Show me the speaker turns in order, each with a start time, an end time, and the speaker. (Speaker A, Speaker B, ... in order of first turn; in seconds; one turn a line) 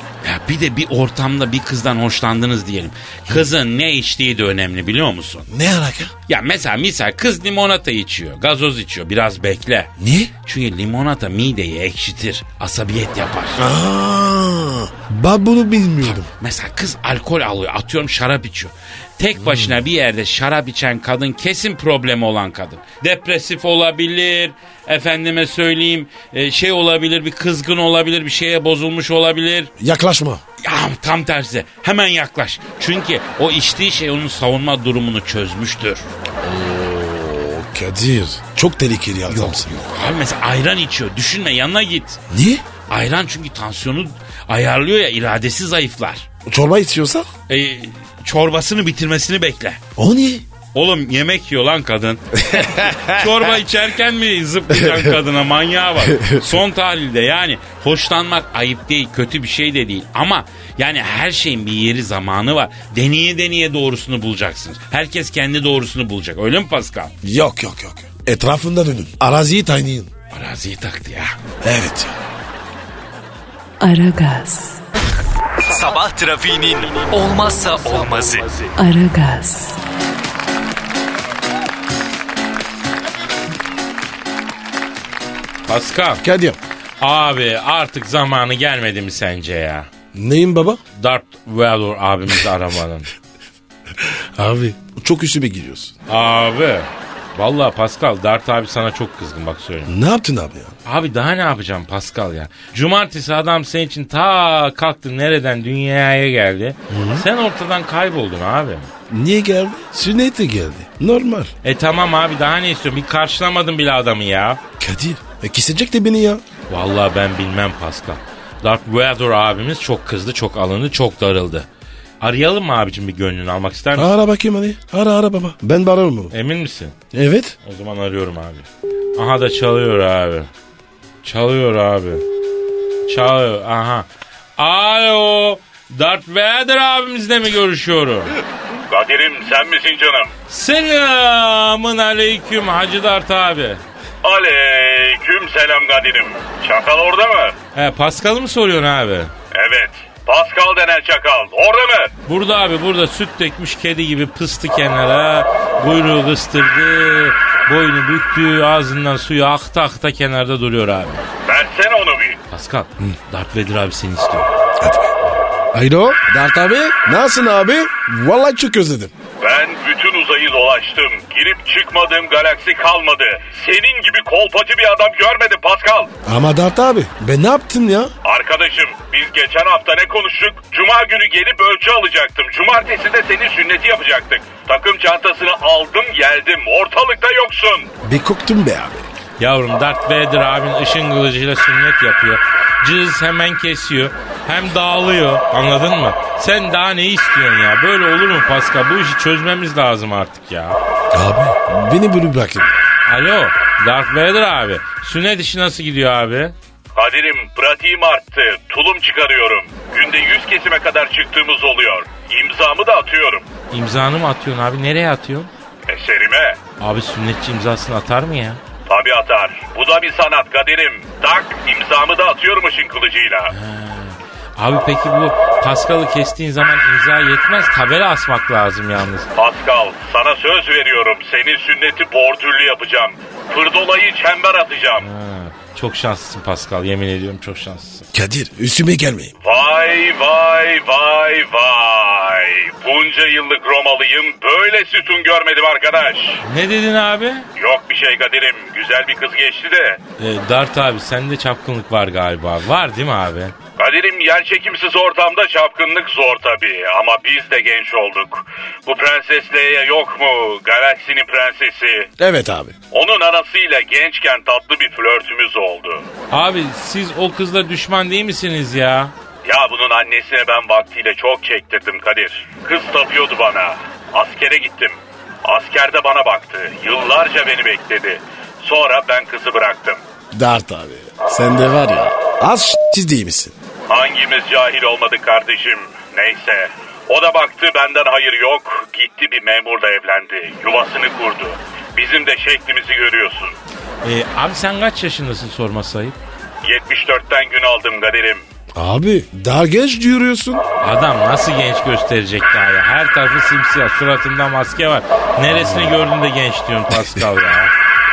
Speaker A: 0.2-5.5
Speaker B: 5.5-6.1
Speaker A: 6.3-9.9
Speaker B: 10.0-10.3
Speaker A: 10.4-13.6
Speaker B: 13.6-16.3
Speaker A: 16.0-29.7
Speaker B: 19.4-19.7
Speaker B: 29.8-30.4
Speaker A: 30.6-36.1
Speaker B: 36.4-39.8
Speaker A: 39.3-42.2
Speaker B: 42.3-42.6
Speaker A: 42.9-46.3
Speaker B: 46.5-47.3
Speaker A: 47.5-49.8
Speaker B: 50.0-50.4
Speaker A: 50.7-67.1
Speaker B: 52.4-53.4
Speaker B: 54.7-55.1
Speaker B: 56.0-56.6
Speaker B: 67.2-70.1
Speaker A: 70.3-71.3
Speaker B: 71.6-72.2
Speaker C: 73.8-74.8
Speaker D: 75.6-78.7
Speaker C: 78.8-79.8
Speaker A: 85.7-86.2
Speaker B: 86.2-86.6
Speaker A: 87.0-89.9
Speaker B: 90.1-90.8
Speaker A: 91.0-93.1
Speaker B: 94.0-95.9
Speaker A: 96.1-99.9
Speaker B: 99.8-100.7
Speaker A: 100.8-108.9
Speaker B: 106.9-107.2
Speaker B: 109.1-111.5
Speaker A: 111.6-114.6
Speaker B: 114.8-116.4
Speaker A: 116.7-121.7
Speaker A: 122.2-124.1
Speaker B: 123.9-126.3
Speaker A: 126.3-126.9
Speaker B: 127.1-127.5
Speaker A: 127.6-130.5
Speaker A: 131.2-132.2
Speaker A: 133.1-134.1
Speaker A: 134.6-138.3
Speaker E: 138.9-140.3
Speaker A: 140.5-143.8
Speaker E: 144.2-147.6
Speaker A: 147.7-149.3
Speaker E: 149.5-152.1
Speaker A: 152.2-161.2
Speaker E: 161.4-162.4
Speaker A: 162.5-164.5
Speaker B: 164.8-165.1
Speaker B: 165.7-169.1
Speaker E: 169.4-176.1
Speaker B: 176.2-178.1
Speaker E: 178.2-187.9
Speaker B: 188.0-189.1
Speaker A: 189.4-200.8
Speaker B: 201.1-202.8
Speaker A: 203.1-206.5
Speaker E: 206.9-213.5
Speaker A: 213.7-215.5
Speaker E: 215.9-216.6
Speaker A: 216.8-218.6
Speaker E: 218.9-223.5
Speaker A: 223.5-229.3
Speaker E: 229.3-235.1
Speaker A: 235.0-238.1
Speaker B: 238.1-239.3
Speaker E: 239.4-246.4
Speaker A: 246.4-247.4
Speaker E: 247.6-250.0
Speaker A: 250.2-253.5
Speaker E: 253.8-262.1
Speaker B: 262.2-262.8
Speaker E: 262.9-266.1
Speaker A: 266.3-269.1
Speaker E: 269.4-280.0
Speaker B: 280.3-283.5
Speaker E: 283.9-293.5
Speaker A: 294.0-296.2
Speaker E: 296.6-298.4
Speaker B: 298.8-300.6
Speaker A: 300.8-307.7
Speaker B: 305.6-305.9